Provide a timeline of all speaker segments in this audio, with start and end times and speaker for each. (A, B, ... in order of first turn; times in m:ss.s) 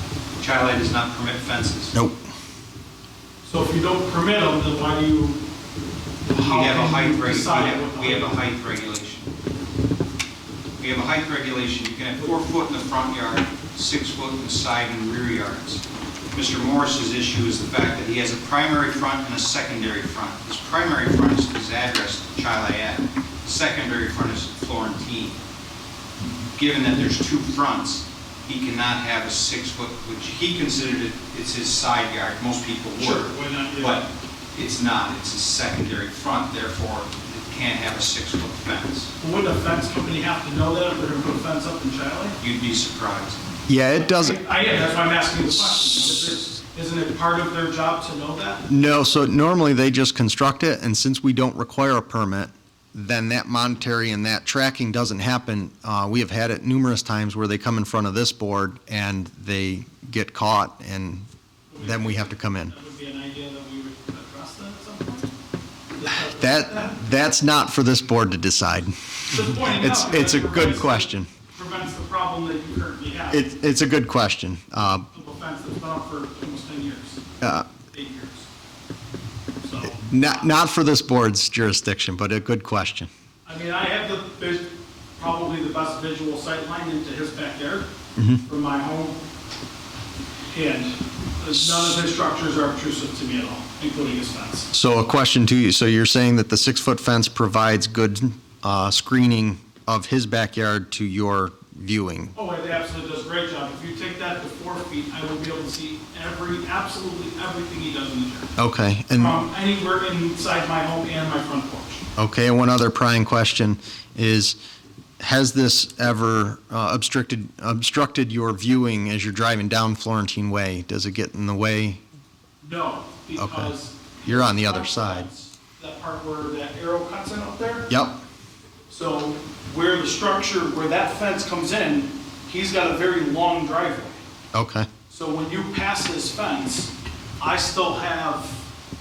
0:00.4-0:01.9 A
0:01.9-0:02.2 B
0:03.4-0:05.4 C
0:06.3-0:09.3 A
0:06.3-0:08.3 C
0:10.8-0:25.4 A
0:26.5-0:39.1 A
0:33.0-0:34.0 C
0:39.2-0:42.4 C
0:42.4-0:43.4 A
0:43.7-0:44.4 B
0:44.3-0:48.6 C
0:45.4-0:46.6 A
0:48.6-1:01.3 B
1:01.7-1:05.3 C
1:01.8-1:02.7 B
1:06.0-1:06.9 C
1:06.1-1:11.3 B
1:09.3-1:13.4 C
1:13.3-1:15.1 B
1:15.1-1:17.2 C
1:17.4-1:17.7 B
1:17.8-1:18.5 C
1:19.6-1:20.1 C
1:20.0-1:23.1 B
1:23.4-1:27.9 C
1:28.2-1:28.4 B
1:28.4-1:29.2 C
1:30.5-1:34.7 C
1:31.6-1:32.0 B
1:34.7-1:42.3 B
1:42.3-1:48.5 C
1:48.6-1:49.4 B
1:49.2-1:52.0 C
1:52.2-1:54.6 B
1:55.2-2:02.0 B
2:02.6-2:07.9 C
2:03.4-2:03.7 B
2:04.2-2:05.3 B
2:07.9-2:08.2 B
2:08.9-2:14.2 C
2:14.5-2:14.9 B
2:15.1-2:18.6 C